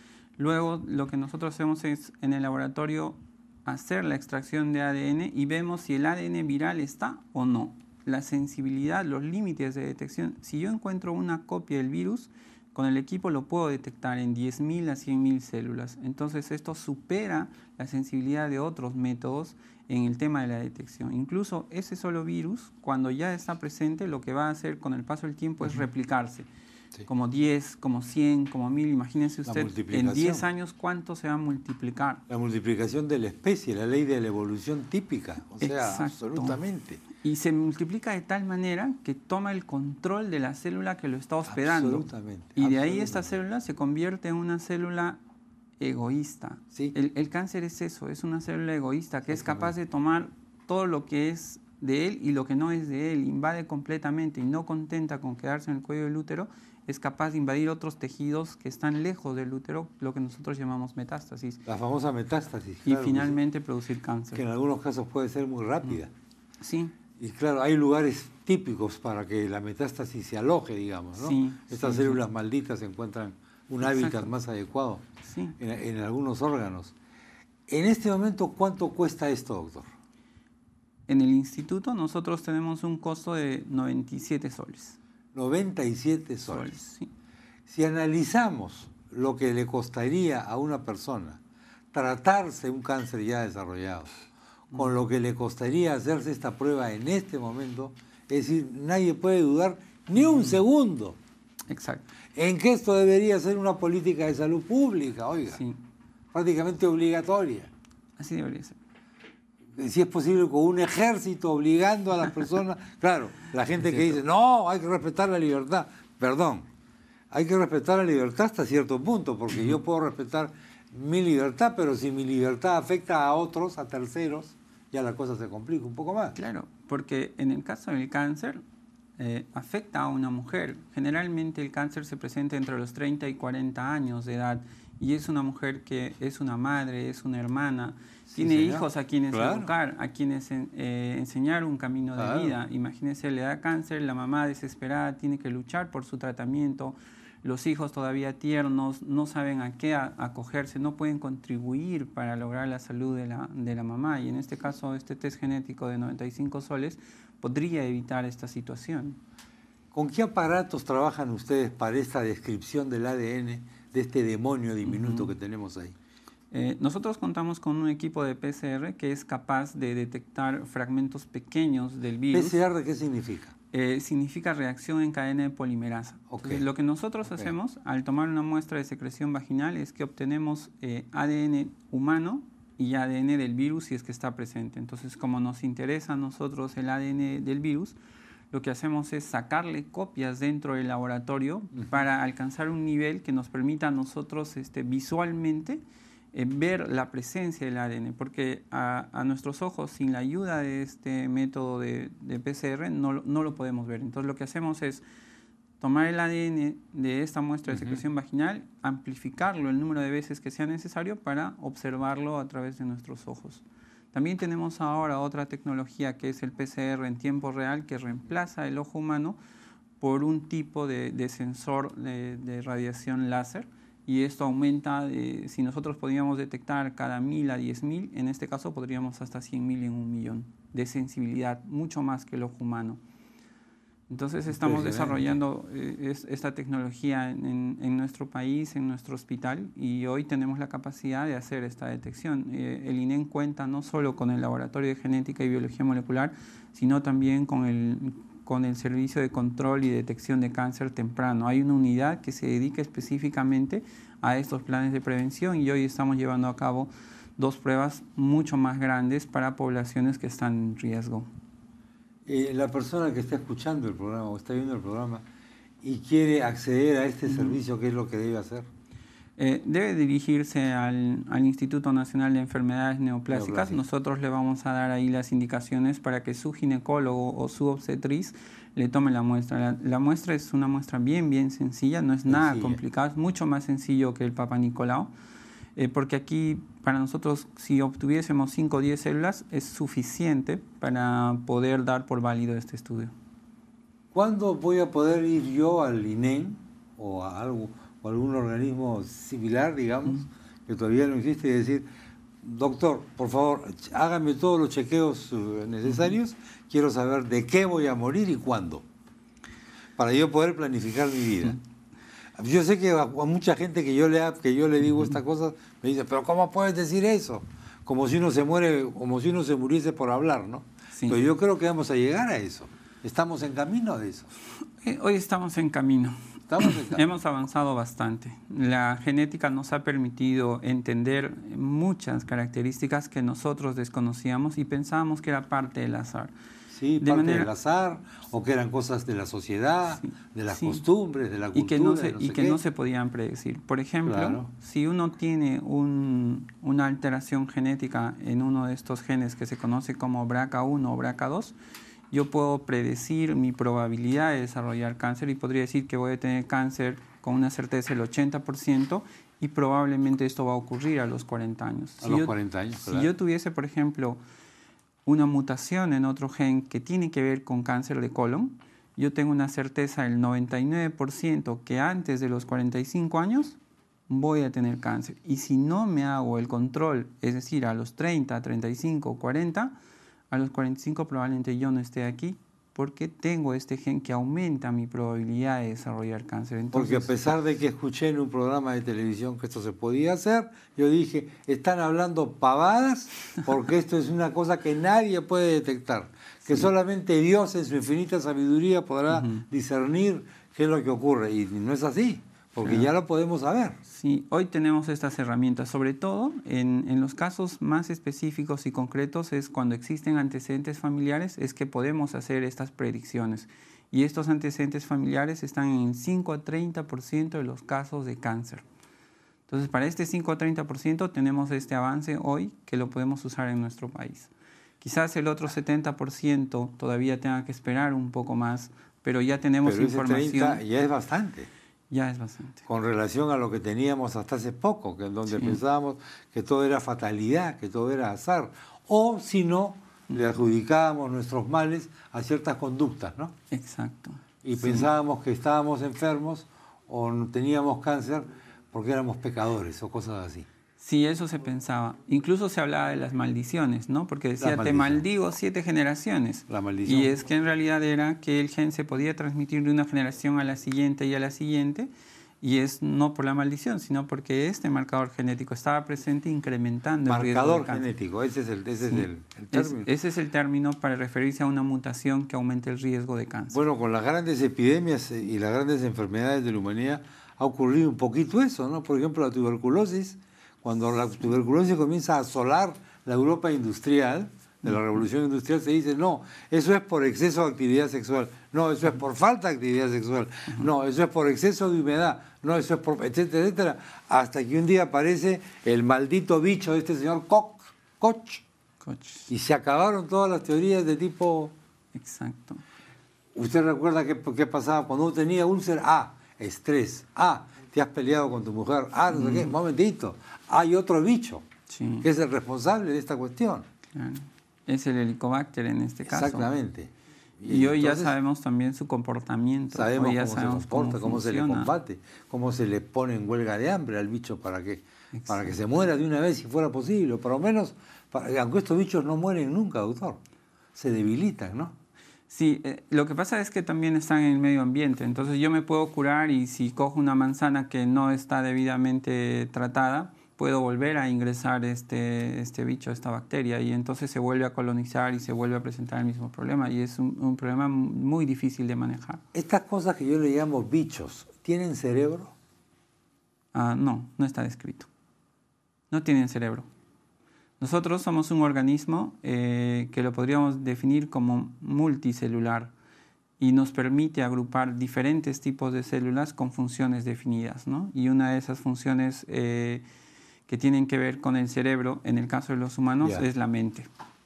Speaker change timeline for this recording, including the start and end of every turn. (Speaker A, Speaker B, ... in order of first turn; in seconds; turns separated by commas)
Speaker A: 0.4-26.5, Speaker A: 27.1-32.2, Speaker B: 29.4-30.5, Speaker B: 32.3-37.0, Speaker A: 35.6-36.6, Speaker A: 37.1-45.2, Speaker B: 41.5-43.4, Speaker A: 45.8-61.6, Speaker B: 49.3-49.7, Speaker B: 61.7-63.4, Speaker A: 62.8-64.4, Speaker B: 64.3-66.1, Speaker A: 66.6-66.9, Speaker B: 67.2-75.0, Speaker A: 71.2-72.2, Speaker A: 73.8-74.3, Speaker A: 75.2-75.6, Speaker B: 75.6-76.9, Speaker B: 77.7-79.9, Speaker A: 81.1-85.0, Speaker B: 85.3-86.7, Speaker A: 86.5-87.1, Speaker B: 87.7-91.4, Speaker B: 91.9-94.2, Speaker B: 94.7-101.2, Speaker A: 100.2-100.6, Speaker A: 101.7-102.1, Speaker B: 102.3-105.6, Speaker A: 105.5-105.8, Speaker B: 106.3-107.7, Speaker A: 108.2-108.8, Speaker B: 109.8-116.7, Speaker A: 113.8-114.2, Speaker B: 117.3-126.4, Speaker A: 126.3-128.6, Speaker A: 129.2-159.2, Speaker B: 138.3-139.7, Speaker B: 142.2-142.6, Speaker B: 159.9-165.9, Speaker A: 164.8-165.3, Speaker A: 166.5-172.6, Speaker B: 172.3-173.5, Speaker A: 173.7-188.0, Speaker B: 176.3-176.6, Speaker B: 177.2-177.5, Speaker A: 188.5-195.8, Speaker A: 196.3-205.0, Speaker A: 205.8-219.4, Speaker B: 207.7-208.0, Speaker A: 220.0-233.0, Speaker A: 234.1-261.2, Speaker B: 234.5-235.4, Speaker B: 262.2-265.2, Speaker B: 265.8-268.7, Speaker A: 267.3-267.6, Speaker A: 269.4-285.1, Speaker B: 273.3-273.8, Speaker B: 282.3-282.8, Speaker A: 285.8-293.1, Speaker B: 294.1-301.9, Speaker B: 302.4-308.8, Speaker A: 305.9-306.1, Speaker B: 310.0-311.6, Speaker B: 312.4-324.3, Speaker A: 320.9-321.2, Speaker A: 324.8-336.3, Speaker B: 326.5-327.0, Speaker B: 336.7-342.6, Speaker A: 337.0-337.5, Speaker A: 340.0-340.8, Speaker A: 341.5-351.6, Speaker B: 344.0-344.5, Speaker A: 352.1-364.2, Speaker B: 362.0-363.1, Speaker A: 365.1-379.7, Speaker A: 380.3-387.1, Speaker B: 386.7-403.8, Speaker A: 399.1-399.4, Speaker A: 402.6-402.9, Speaker A: 403.9-418.6, Speaker A: 419.5-430.6, Speaker B: 429.6-431.5, Speaker A: 431.9-432.6, Speaker B: 432.7-443.3, Speaker A: 435.3-435.6, Speaker A: 440.1-440.4, Speaker A: 443.5-444.9, Speaker B: 444.4-450.5, Speaker A: 450.8-461.9, Speaker B: 454.4-455.0, Speaker B: 456.5-457.1, Speaker A: 462.4-467.9, Speaker B: 467.0-469.9, Speaker A: 468.8-473.6, Speaker B: 473.5-498.4, Speaker A: 498.8-499.3, Speaker B: 499.3-501.5, Speaker A: 501.9-502.6, Speaker B: 503.3-511.4, Speaker A: 509.1-509.5, Speaker A: 511.7-512.1, Speaker B: 512.0-513.6, Speaker A: 513.9-516.5, Speaker B: 516.0-518.1, Speaker A: 517.4-521.7, Speaker B: 519.7-530.2, Speaker A: 525.1-525.6, Speaker B: 530.7-531.7, Speaker A: 532.3-549.2, Speaker B: 549.3-552.3, Speaker A: 553.5-554.9, Speaker A: 555.9-556.7, Speaker A: 557.6-562.7, Speaker A: 563.4-569.8, Speaker A: 570.5-573.9